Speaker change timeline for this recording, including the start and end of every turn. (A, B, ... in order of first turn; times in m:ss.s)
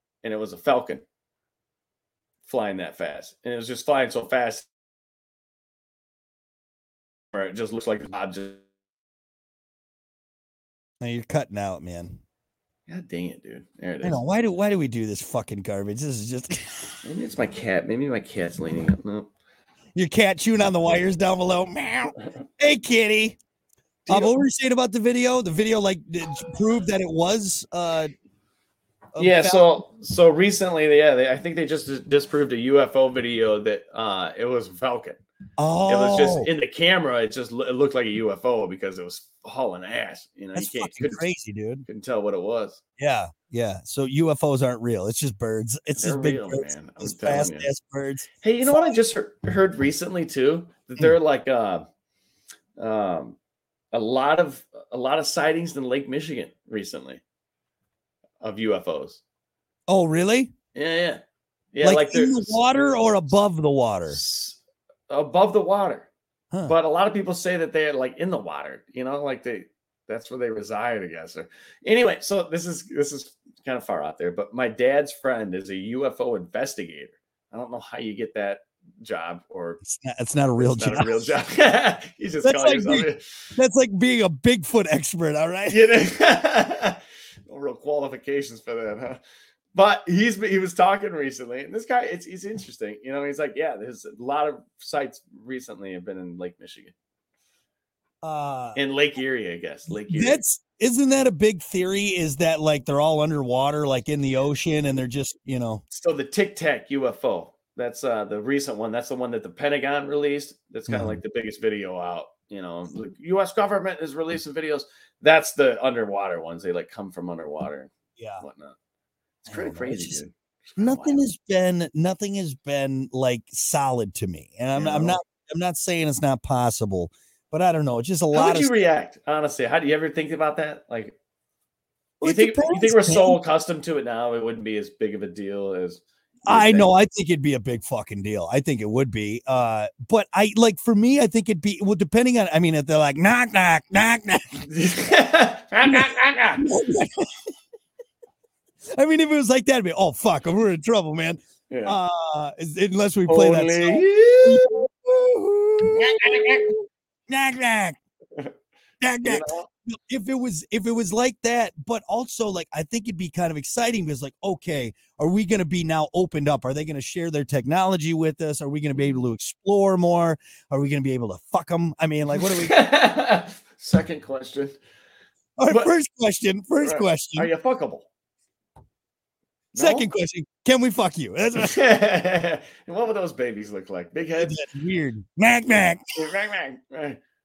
0:00.2-0:01.0 A
0:02.4-0:04.7 A
0:07.3-0:08.6 A
0:11.0-0:12.2 B
0:12.9-0:14.2 A
0:14.0-0:17.0 B
0:17.0-0:19.3 A
0:19.9-0:23.4 B
0:24.0-0:24.4 A
0:24.1-0:28.1 B
0:29.1-0:29.6 B
0:29.2-0:35.2 A
0:35.6-0:36.5 B
0:35.9-0:41.3 A
0:40.5-0:41.8 B
0:41.8-0:42.8 A
0:43.0-0:49.0 B
0:46.0-0:47.7 A
0:48.4-0:51.8 A
0:52.8-0:53.4 A
0:53.9-0:57.2 A
0:58.4-0:59.2 A
0:59.9-1:00.5 B
1:00.7-1:01.2 A
1:01.7-1:02.9 A
1:01.8-1:04.2 B
1:04.1-1:06.1 A
1:06.7-1:19.8 A
1:19.8-1:21.3 B
1:20.6-1:23.3 A
1:22.4-1:25.8 B
1:25.7-1:29.2 A
1:29.7-1:36.9 A
1:38.2-1:38.8 B
1:38.8-1:40.4 A
1:40.1-1:45.8 B
1:45.9-1:58.8 A
1:50.9-1:51.2 B
1:58.2-1:58.4 B
1:59.4-2:00.2 B
1:59.5-2:01.2 A
2:00.8-2:08.7 B
2:04.7-2:05.2 A
2:08.3-2:11.2 A
2:12.2-2:13.4 B
2:12.2-2:16.9 A
2:16.5-2:24.6 B
2:24.6-2:26.6 A
2:26.6-2:27.3 B
2:28.9-2:38.0 B
2:31.7-2:32.0 A
2:33.3-2:34.8 A
2:35.9-2:36.7 A
2:39.0-2:52.8 B
2:39.2-2:39.7 A
2:52.4-2:54.8 A
2:55.6-2:57.5 B
2:56.8-2:58.1 A
2:59.7-3:00.1 A
2:59.8-3:01.8 B
3:01.6-3:04.6 A
3:04.4-3:06.0 B
3:06.2-3:07.2 A